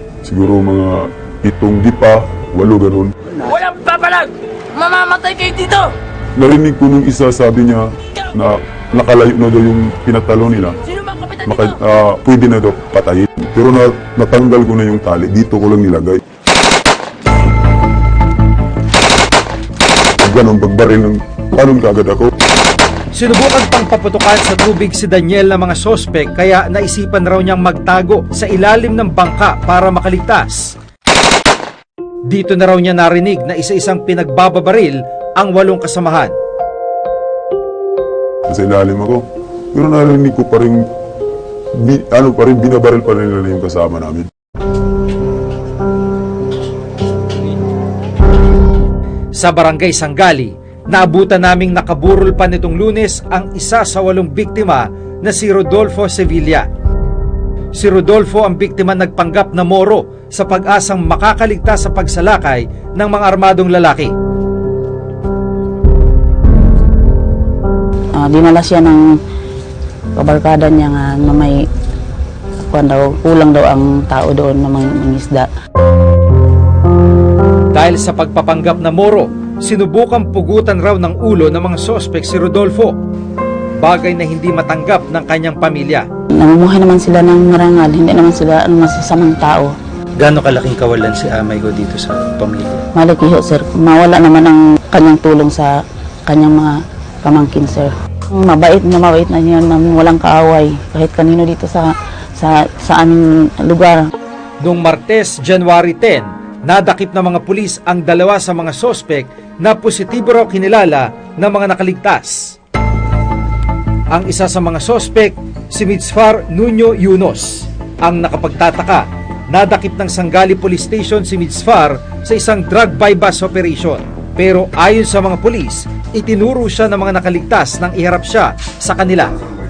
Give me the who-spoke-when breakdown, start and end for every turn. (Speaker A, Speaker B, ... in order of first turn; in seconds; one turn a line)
Speaker A: 0.2-3.1
Speaker B: 3.4-5.9
Speaker A: 6.3-10.8
Speaker B: 10.9-11.4
Speaker A: 11.4-16.2
Speaker A: 20.2-22.3
Speaker C: 23.1-30.7
Speaker C: 32.3-36.3
Speaker A: 38.5-40.8
Speaker A: 41.7-44.3
Speaker C: 49.4-56.7
Speaker C: 57.8-64.1
Speaker D: 68.1-69.1
Speaker D: 70.2-71.7
Speaker D: 72.7-75.5
Speaker C: 77.7-83.0
Speaker C: 83.8-86.1
Speaker D: 86.3-89.7
Speaker E: 90.2-92.8
Speaker D: 92.9-104.1
Speaker C: 104.6-112.5
Speaker C: 114.1-129.3